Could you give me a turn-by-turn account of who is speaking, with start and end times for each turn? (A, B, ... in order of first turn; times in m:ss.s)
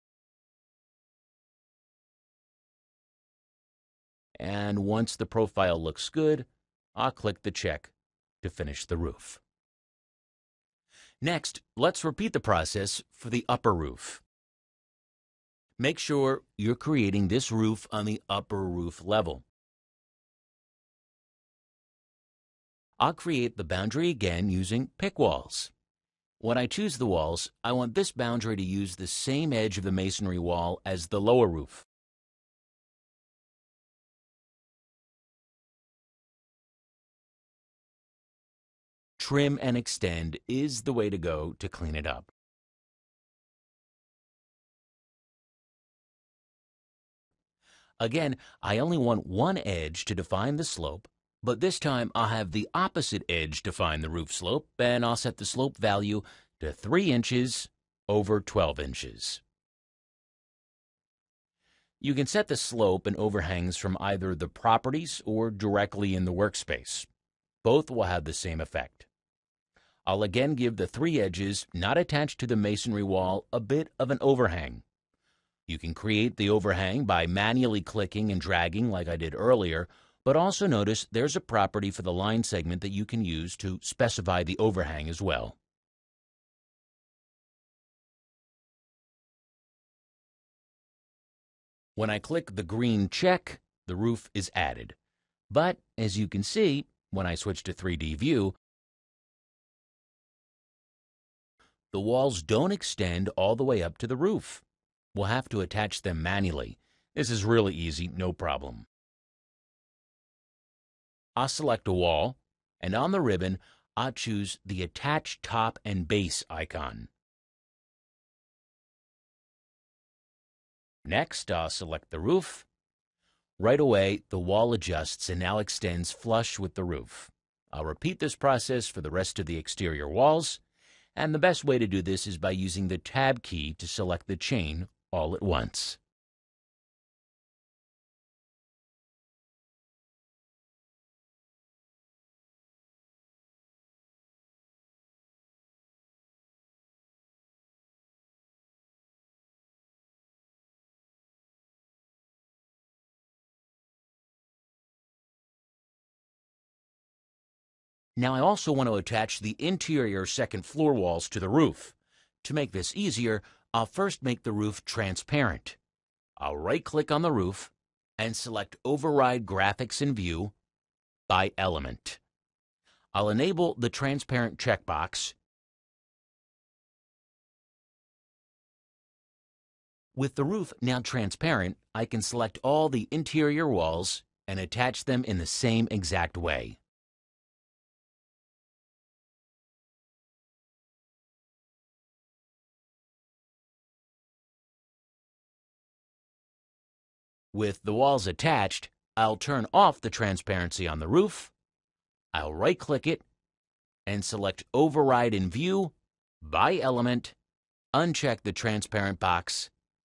0:04.4-0:09.4 A
0:11.2-0:14.2 A
0:15.8-0:19.4 A
0:23.0-0:25.7 A
0:26.4-0:31.9 A
0:39.2-0:42.3 A
0:48.0-0:59.4 A
1:02.0-1:07.1 A
1:07.6-1:09.1 A
1:10.1-1:14.8 A
1:15.7-1:25.6 A
1:32.0-1:35.0 A
1:35.5-1:38.6 A
1:41.9-1:48.9 A
1:51.4-1:57.1 A
2:01.0-2:02.7 A
2:03.6-2:10.6 A
2:11.2-2:16.0 A
2:38.2-2:45.8 A
2:46.4-2:50.5 A
2:51.3-2:52.2 A
2:53.1-2:55.4 A
3:00.2-3:06.8 A
3:17.5-3:21.5 A
3:22.3-3:23.2 A
3:24.1-3:27.4 A
3:27.9-3:29.7 A